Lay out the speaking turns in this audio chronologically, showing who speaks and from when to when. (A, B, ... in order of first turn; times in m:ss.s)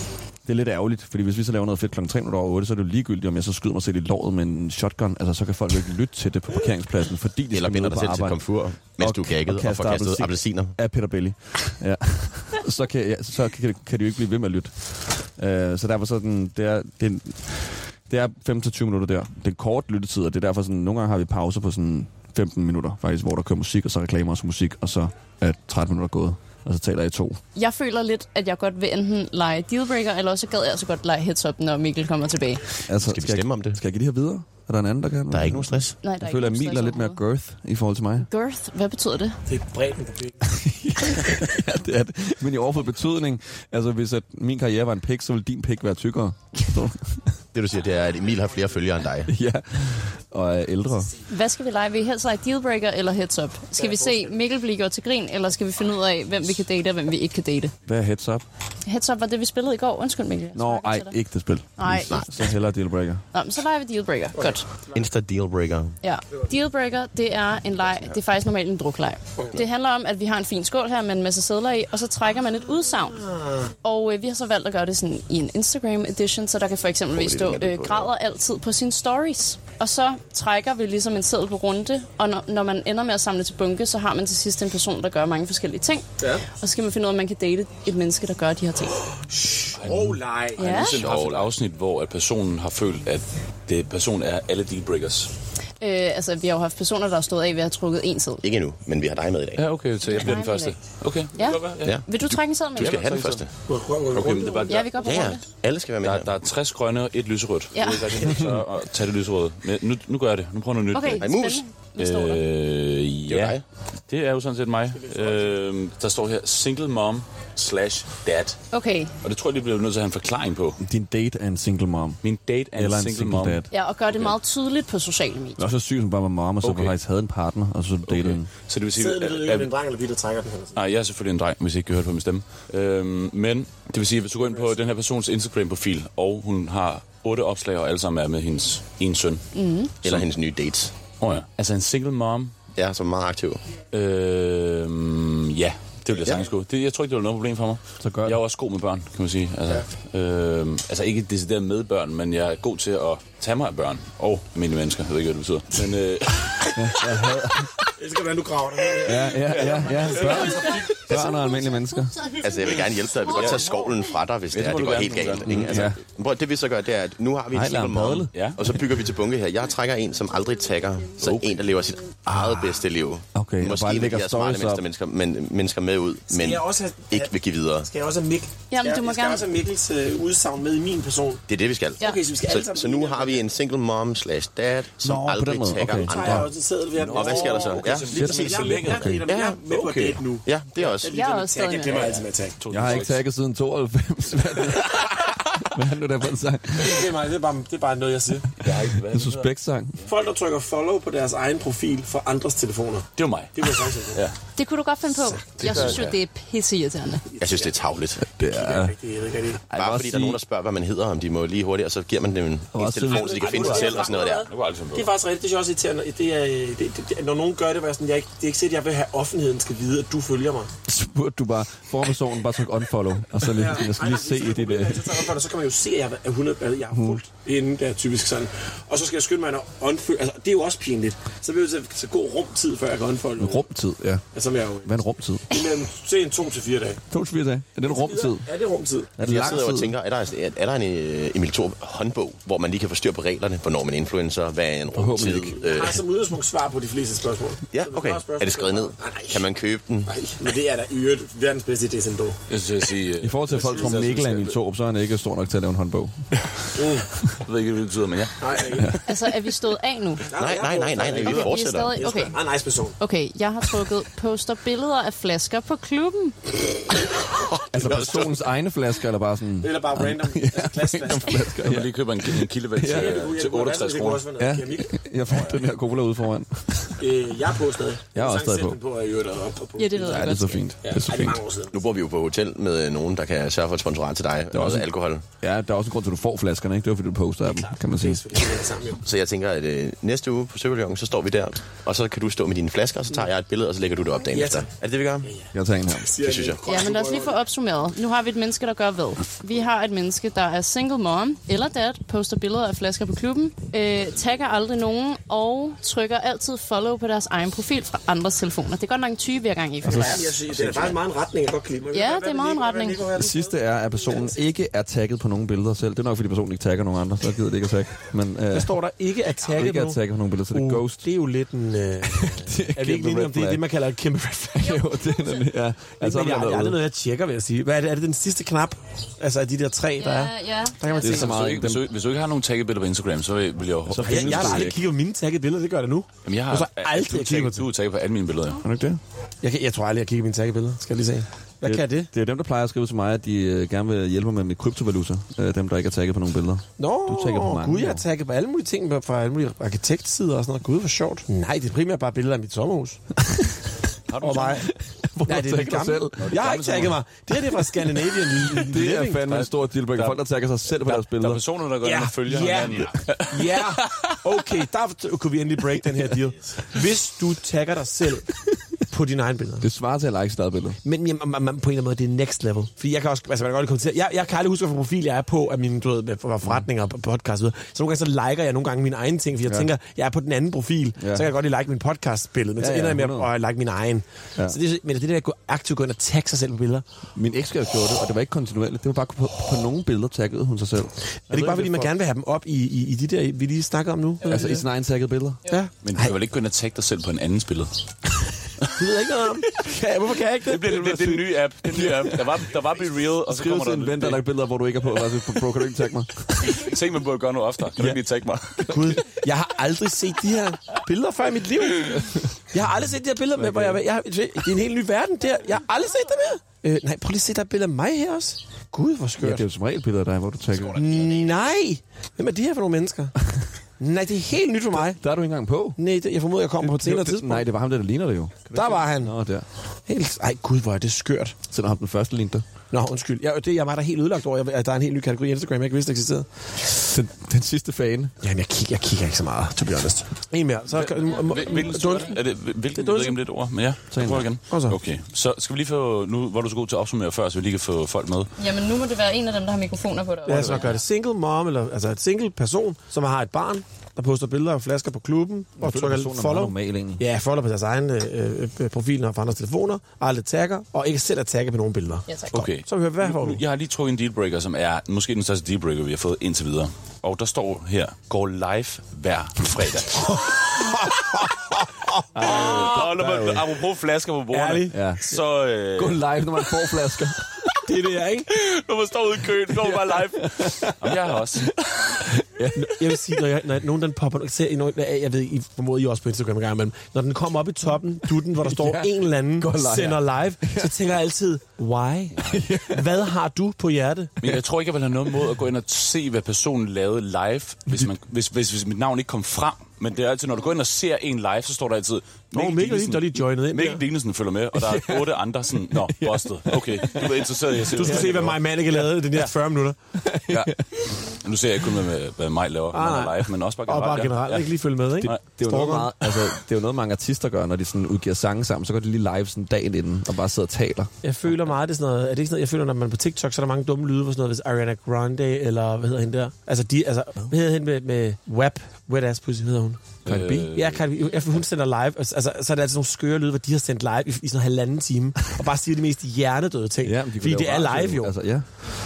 0:00.4-0:27.4 A
0:07.5-0:10.7 B
0:27.6-0:32.6 C
0:32.9-0:38.3 A
0:33.0-0:33.8 B
0:35.3-0:36.0 B
0:36.0-0:37.2 C
0:38.2-0:39.4 C
0:39.5-0:40.4 D
0:40.4-0:47.3 A
0:47.5-0:49.3 B
0:49.3-0:51.1 A
0:51.3-0:57.7 C
0:53.8-0:54.3 D
0:57.9-0:58.4 A
0:58.8-1:01.2 C
1:00.5-1:03.2 A
1:01.8-1:02.2 C
1:01.9-1:02.3 B
1:03.3-1:04.7 C
1:04.9-1:05.9 B
1:06.0-1:29.0 C
1:17.1-1:18.1 B
1:29.2-1:30.7 D
1:29.8-1:35.3 E
1:30.6-1:31.0 C
1:30.8-1:31.5 B
1:35.8-1:38.4 C
1:38.4-1:39.7 B
1:39.6-1:42.0 E
1:40.0-1:40.8 C
1:41.4-1:43.0 C
1:41.8-1:43.5 B
1:42.8-1:43.5 E
1:43.7-1:44.8 D
1:44.1-1:44.9 E
1:44.7-1:45.5 C
1:44.9-1:46.3 B
1:46.0-1:51.3 E
1:47.7-1:48.3 C
1:50.9-1:52.4 C
1:51.1-1:51.6 B
1:52.0-1:58.6 E
1:53.2-1:53.6 B
1:55.0-1:55.5 D
1:58.7-1:59.1 C
1:59.2-2:00.8 E
2:00.8-2:02.2 A
2:02.2-2:04.4 E
2:02.7-2:03.7 A
2:03.7-2:05.6 C
2:05.6-2:08.5 A
2:06.6-2:07.0 E
2:08.1-2:09.7 E
2:09.0-2:10.8 D
2:10.7-2:19.4 E
2:19.5-2:19.9 C
2:20.0-2:20.9 B
2:21.2-2:22.6 E
2:22.7-2:23.6 B
2:23.9-2:36.7 E
2:28.0-2:28.4 A
2:36.8-2:37.8 A
2:38.0-2:41.2 D
2:39.0-2:42.3 A
2:39.6-2:40.4 E
2:42.3-2:57.9 B
2:43.3-2:43.7 E
2:44.5-2:46.0 E
2:45.5-2:46.0 A
2:47.5-2:48.3 A
2:48.3-2:48.6 E
2:51.2-2:51.6 E
2:53.4-2:54.8 A
2:56.3-2:57.3 D
2:57.8-3:01.4 D
2:58.7-2:59.4 C
3:01.5-3:06.5 B
3:02.0-3:03.5 D
3:05.0-3:06.5 A
3:06.0-3:13.0 D
3:07.0-3:09.2 E
3:07.1-3:09.6 B
3:08.3-3:09.2 A
3:09.7-3:10.2 E
3:10.4-3:11.1 B
3:11.1-3:12.2 C
3:11.9-3:13.2 E
3:12.7-3:17.1 A
3:16.8-3:18.5 D
3:18.6-3:19.5 E
3:19.1-3:20.0 A
3:20.0-3:24.2 D
3:23.2-3:24.4 E
3:24.6-3:27.2 C
3:25.6-3:26.0 D
3:25.6-3:26.2 E
3:27.4-3:27.8 D
3:27.4-3:28.3 B
3:28.4-3:29.0 A
3:28.4-3:29.6 D
3:29.7-3:34.5 B
3:29.7-3:30.4 A
3:32.7-3:33.7 A
3:33.0-3:40.7 D
3:33.7-3:35.1 E
3:40.9-3:45.3 A
3:43.4-3:53.6 D
3:46.9-3:47.2 A
3:53.4-3:54.2 A
3:54.3-3:55.0 D
3:54.8-3:55.7 A
3:55.5-3:57.0 D
3:57.1-3:58.5 A
3:57.8-3:59.3 D
3:59.2-3:59.9 A
3:59.2-4:06.0 B
4:04.9-4:05.6 A
4:05.6-4:09.5 D
4:07.7-4:10.1 B
4:10.0-4:12.4 D
4:12.5-4:14.6 E
4:13.2-4:16.6 A
4:16.8-4:17.1 D
4:17.4-4:18.5 E
4:18.4-4:19.0 D
4:19.0-4:20.3 C
4:20.3-4:23.0 D
4:20.3-4:22.0 B
4:21.2-4:22.4 C
4:23.0-4:26.4 C
4:27.7-4:33.3 A
4:27.7-4:28.3 B
4:29.6-4:31.8 D
4:31.6-4:34.3 E
4:32.9-4:34.9 D
4:34.4-4:37.0 A
4:37.0-4:40.2 D
4:38.1-4:38.8 A
4:39.8-4:40.7 C
4:39.9-4:41.4 A
4:40.8-4:41.8 D
4:41.7-4:45.2 B
4:44.5-4:44.9 A
4:45.4-4:48.3 A
4:47.5-4:49.0 D
4:49.0-4:55.3 B
4:54.3-4:54.7 D
4:55.2-4:55.5 D
4:55.5-4:56.2 A
4:56.0-4:57.4 D
4:56.2-4:56.7 B
4:56.6-5:10.3 C
5:09.8-5:13.6 D
5:10.5-5:11.0 A
5:11.9-5:13.0 C
5:13.1-5:18.8 A
5:18.5-5:24.9 D
5:19.4-5:21.1 A
5:22.0-5:23.8 A
5:24.6-5:26.8 A
5:26.0-5:31.4 D
5:30.0-5:31.3 C
5:31.0-5:31.9 A
5:31.1-5:34.7 E
5:33.9-5:34.8 A
5:34.0-5:37.7 D
5:36.2-5:38.6 E
5:38.6-5:39.0 A
5:39.4-5:42.1 D
5:41.6-5:48.1 A
5:46.8-5:53.0 D
5:54.1-5:54.7 E
5:54.2-5:54.7 D
5:54.6-5:56.4 A
5:55.2-5:59.2 D
5:56.2-5:57.0 E
5:58.1-6:01.4 A
5:59.3-6:00.2 E
6:00.8-6:04.1 E
6:01.8-6:09.6 D
6:09.6-6:10.8 A
6:10.8-6:26.8 D
6:19.4-6:19.7 A
6:21.0-6:21.3 A
6:22.6-6:23.3 A
6:27.2-6:31.9 A
6:31.3-6:34.7 D
6:34.2-6:35.4 A
6:35.5-6:36.2 D
6:35.8-6:37.7 E
6:38.7-6:41.2 D
6:40.5-6:44.2 E
6:41.6-6:42.3 A
6:43.3-6:46.7 A
6:46.4-6:48.8 E
6:48.7-6:59.4 D
6:52.0-6:52.3 A
6:53.4-6:53.8 A
6:59.2-7:00.8 A
7:00.8-7:01.2 B
7:00.8-7:03.2 D
7:03.8-7:05.0 D
7:04.7-7:05.8 A
7:05.8-7:07.5 D
7:06.6-7:09.5 A
7:08.5-7:09.2 D
7:09.9-7:11.4 D
7:11.5-7:12.5 A
7:12.7-7:16.4 D
7:16.8-7:18.2 A
7:18.2-7:22.2 D
7:20.7-7:28.3 E
7:22.8-7:23.2 D
7:23.9-7:24.3 A
7:24.5-7:24.8 D
7:28.4-7:30.8 C
7:30.2-7:43.4 D
7:30.3-7:30.7 E
7:35.6-7:37.0 A
7:42.1-7:42.4 C
7:42.3-7:50.4 E
7:50.0-7:51.7 D
7:52.1-7:53.4 A
7:52.2-7:56.4 E
7:54.3-7:54.8 D
7:54.7-7:55.2 A
7:55.8-7:57.5 A
7:57.7-7:58.3 D
7:58.3-8:01.5 E
7:59.6-8:03.2 A
8:02.6-8:14.1 D
8:08.4-8:10.8 A
8:12.2-8:13.0 A
8:14.2-8:29.3 E
8:22.3-8:23.8 D
8:24.6-8:25.1 A
8:25.7-8:28.2 A
8:27.7-8:29.8 D
8:30.0-8:30.8 A
8:30.3-8:34.5 E
8:32.7-8:36.0 D
8:35.1-8:40.9 A
8:41.0-8:49.8 D
8:50.0-8:50.5 A
8:50.0-8:50.8 E
8:50.5-8:58.1 D
8:56.8-8:58.5 A